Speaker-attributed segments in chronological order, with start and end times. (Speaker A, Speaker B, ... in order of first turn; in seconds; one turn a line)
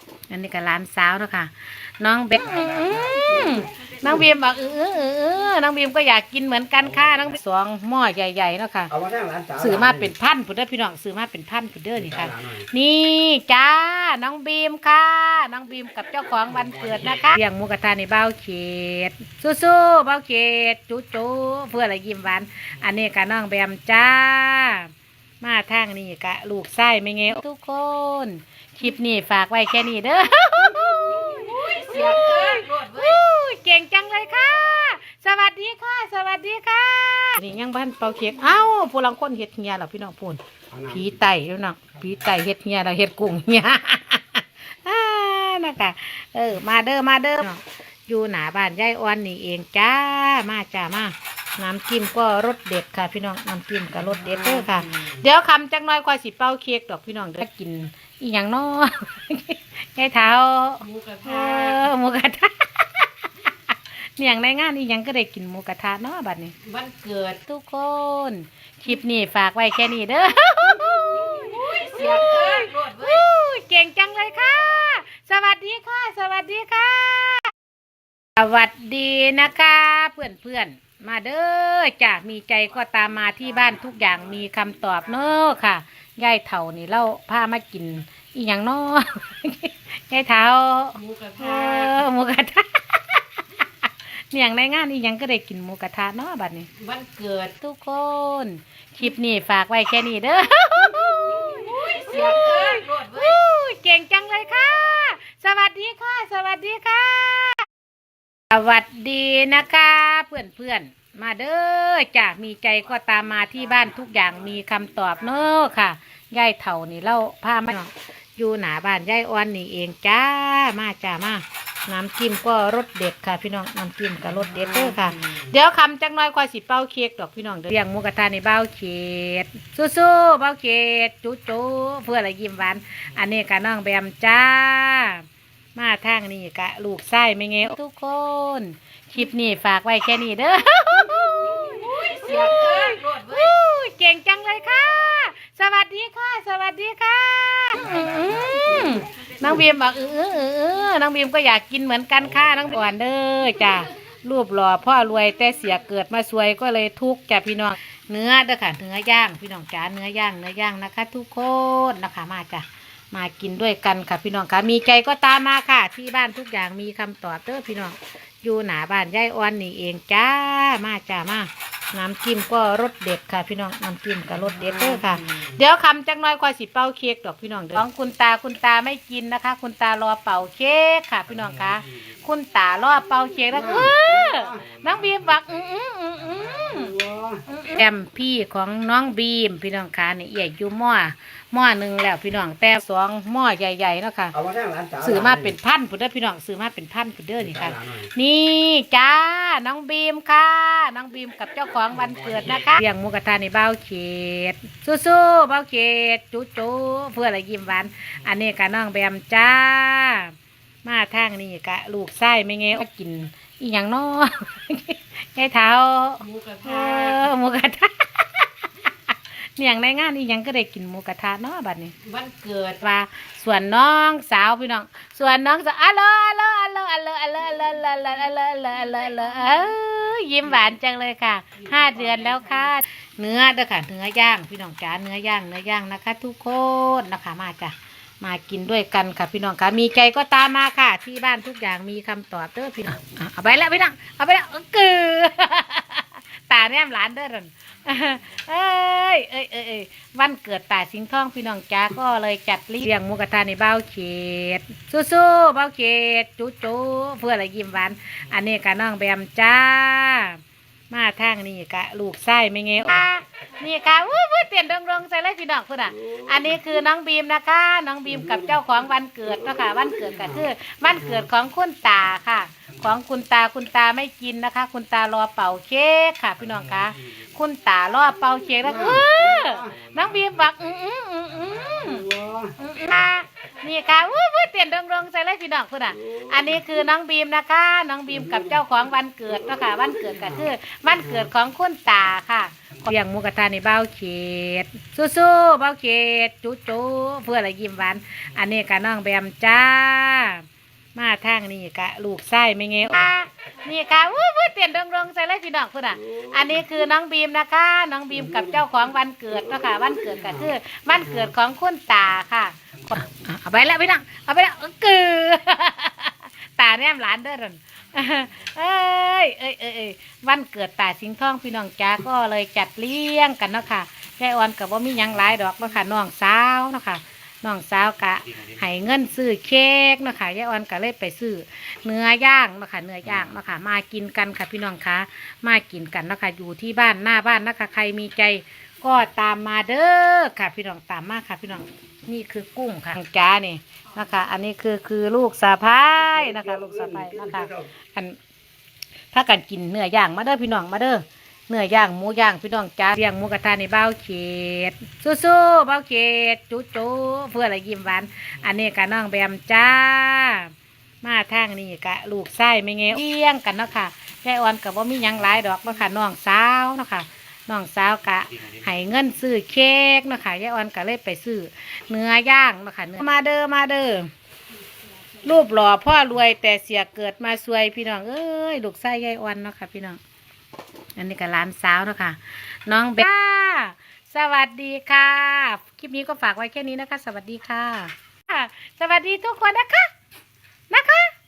Speaker A: 0.3-9.0
Speaker B: 9.0-9.6
Speaker A: 9.6-63.1
Speaker C: 31.1-33.0
Speaker C: 60.8-61.9
Speaker A: 64.2-66.5
Speaker C: 66.6-67.4
Speaker A: 67.5-77.5
Speaker C: 71.1-73.1
Speaker A: 78.3-93.2
Speaker C: 91.0-92.0
Speaker A: 94.3-96.7
Speaker C: 96.8-97.5
Speaker A: 97.6-107.7
Speaker C: 101.4-103.2
Speaker A: 108.5-194.5
Speaker C: 141.4-143.4
Speaker B: 187.0-187.3
Speaker B: 194.4-195.0
Speaker A: 195.0-218.7
Speaker C: 216.2-217.3
Speaker A: 219.6-221.9
Speaker C: 222.0-222.8
Speaker A: 222.8-348.2
Speaker C: 231.7-232.4
Speaker B: 282.1-282.5
Speaker A: 349.1-374.1
Speaker A: 375.2-380.0
Speaker A: 381.0-389.9
Speaker A: 390.7-391.1